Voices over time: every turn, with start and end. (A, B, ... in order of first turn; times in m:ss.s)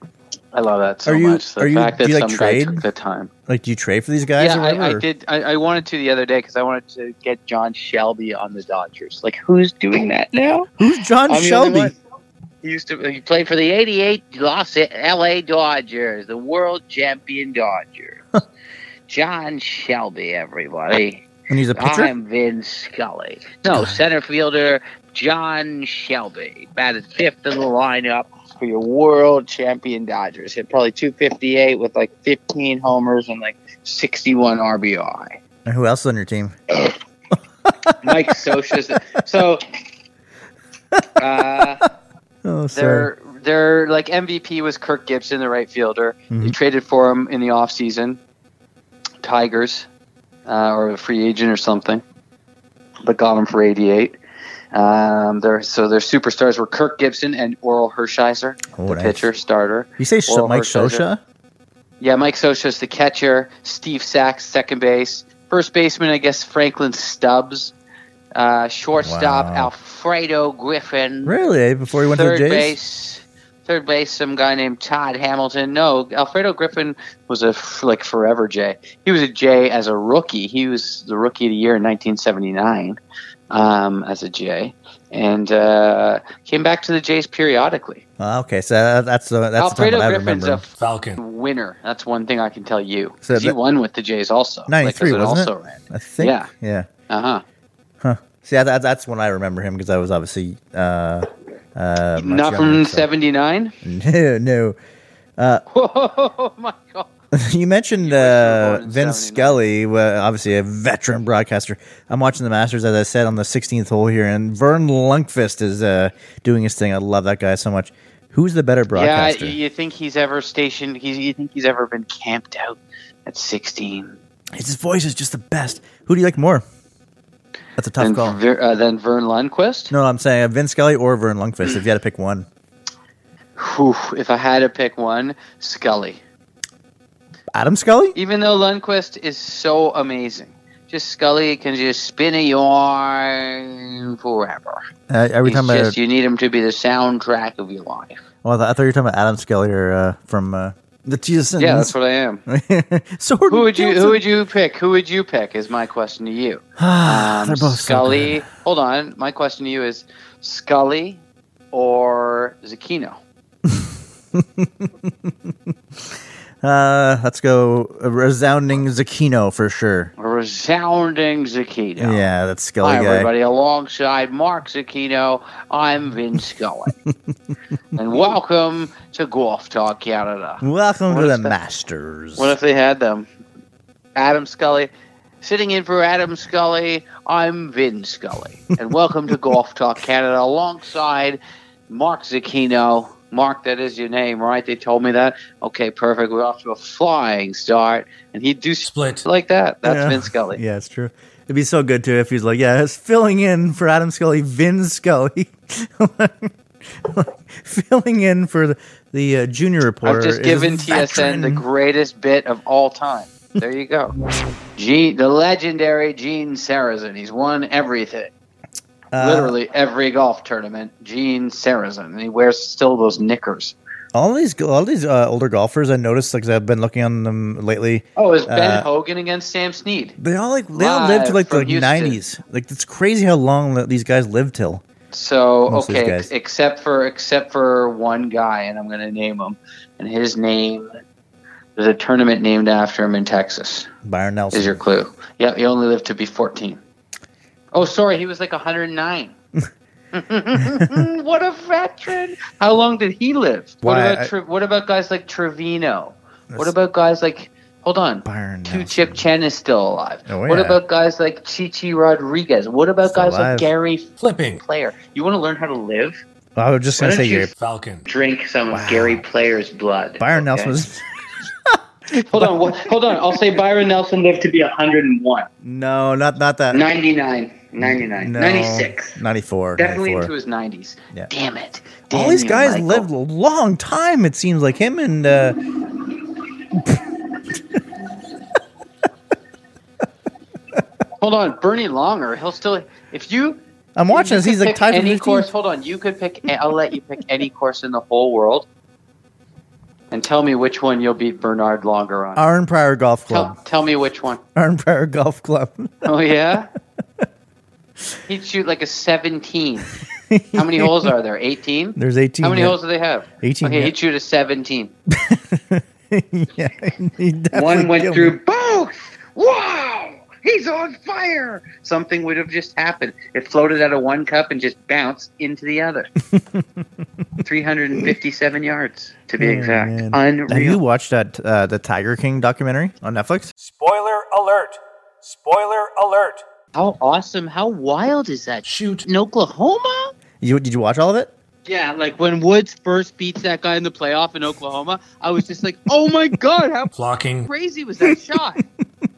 0:00.5-0:03.3 A
0:01.0-0:02.8 B
0:03.5-0:05.0 B
0:04.4-0:10.7 A
0:10.8-0:11.9 B
0:11.3-0:12.0 A
0:12.6-0:18.4 A
0:19.1-0:35.4 A
0:21.5-0:22.1 B
0:35.6-0:36.6 B
0:37.7-0:38.0 B
0:38.0-0:39.6 A
0:41.2-0:41.8 A
0:42.4-0:43.1 B
0:42.7-0:48.2 A
0:46.3-0:46.5 B
0:49.2-0:49.9 A
0:50.4-0:52.0 A
0:53.0-0:54.2 A
0:54.7-1:01.0 A
0:58.7-0:59.3 B
1:00.0-1:01.2 B
1:02.0-1:07.7 A
1:08.3-1:11.3 A
1:09.0-1:09.7 B
1:11.2-1:12.7 B
1:12.0-1:23.0 A
1:23.5-1:28.0 A
1:28.2-1:30.6 B
1:29.6-1:36.5 A
1:30.8-1:31.2 C
1:33.2-1:33.6 B
1:34.7-1:36.9 B
1:37.1-1:37.4 A
1:38.0-1:43.1 B
1:42.2-1:43.7 A
1:43.8-1:44.8 B
1:45.4-1:45.6 B
1:45.7-1:47.1 A
1:47.3-1:59.6 B
1:48.0-1:49.6 A
1:58.9-2:04.2 A
2:04.5-2:06.6 B
2:07.8-2:08.4 B
2:08.0-2:09.9 A
2:09.9-2:12.5 B
2:13.6-2:16.2 A
2:17.5-2:18.2 B
2:18.1-2:24.8 A
2:25.1-2:26.0 B
2:25.4-2:28.2 A
2:28.4-2:31.9 B
2:31.6-2:32.4 A
2:32.5-2:34.2 B
2:33.5-2:43.2 A
2:36.8-2:38.4 B
2:43.6-2:50.1 B
2:50.2-2:52.3 A
2:52.0-2:53.3 B
2:52.8-2:57.0 A
2:57.9-3:01.6 A
3:00.6-3:02.5 B
3:02.4-3:03.3 A
3:04.1-3:04.9 A
3:05.4-3:20.6 A
3:18.9-3:19.2 C
3:19.8-3:31.6 B
3:30.0-3:34.1 A
3:34.8-3:38.3 A
3:39.1-3:39.5 B
3:39.2-3:43.8 A
3:44.1-3:48.8 B
3:48.2-3:50.2 A
3:50.2-3:54.8 B
3:50.7-3:52.2 A
3:55.1-4:01.0 A
3:55.7-3:56.3 B
4:01.8-4:03.9 A
4:04.0-4:04.8 B
4:04.5-4:06.8 A
4:07.7-4:09.3 A
4:10.1-4:26.2 A
4:10.7-4:11.0 B
4:13.8-4:14.3 B
4:18.2-4:19.2 B
4:20.3-4:20.8 B
4:23.0-4:23.7 B
4:24.2-4:24.6 C
4:26.6-4:27.5 B
4:27.0-4:27.5 A
4:27.5-4:28.0 C
4:28.1-4:30.8 A
4:28.7-4:29.2 B
4:30.2-4:31.0 B
4:31.6-4:32.9 B
4:32.2-4:35.5 A
4:35.6-4:36.8 B
4:36.7-4:39.2 A
4:37.8-4:40.3 B
4:39.8-4:43.1 A
4:42.1-4:45.6 B
4:51.2-4:58.6 A
4:54.0-4:55.5 B
5:00.1-5:02.4 A
5:02.4-5:03.6 B
5:03.3-5:04.4 A
5:04.5-5:06.1 B
5:06.0-5:06.7 A
5:08.3-5:09.9 A
5:10.1-5:11.1 B
5:10.5-5:14.9 A
5:12.0-5:12.8 B
5:13.4-5:13.9 B
5:15.1-5:18.4 B
5:17.5-5:26.1 A
5:26.3-5:26.6 B
5:27.4-5:30.8 A
5:29.4-5:33.5 B
5:33.6-5:36.4 C
5:36.7-5:40.1 A
5:38.6-5:39.1 C
5:40.4-5:41.3 B
5:41.6-5:46.9 A
5:46.9-5:47.5 C
5:47.5-5:48.6 A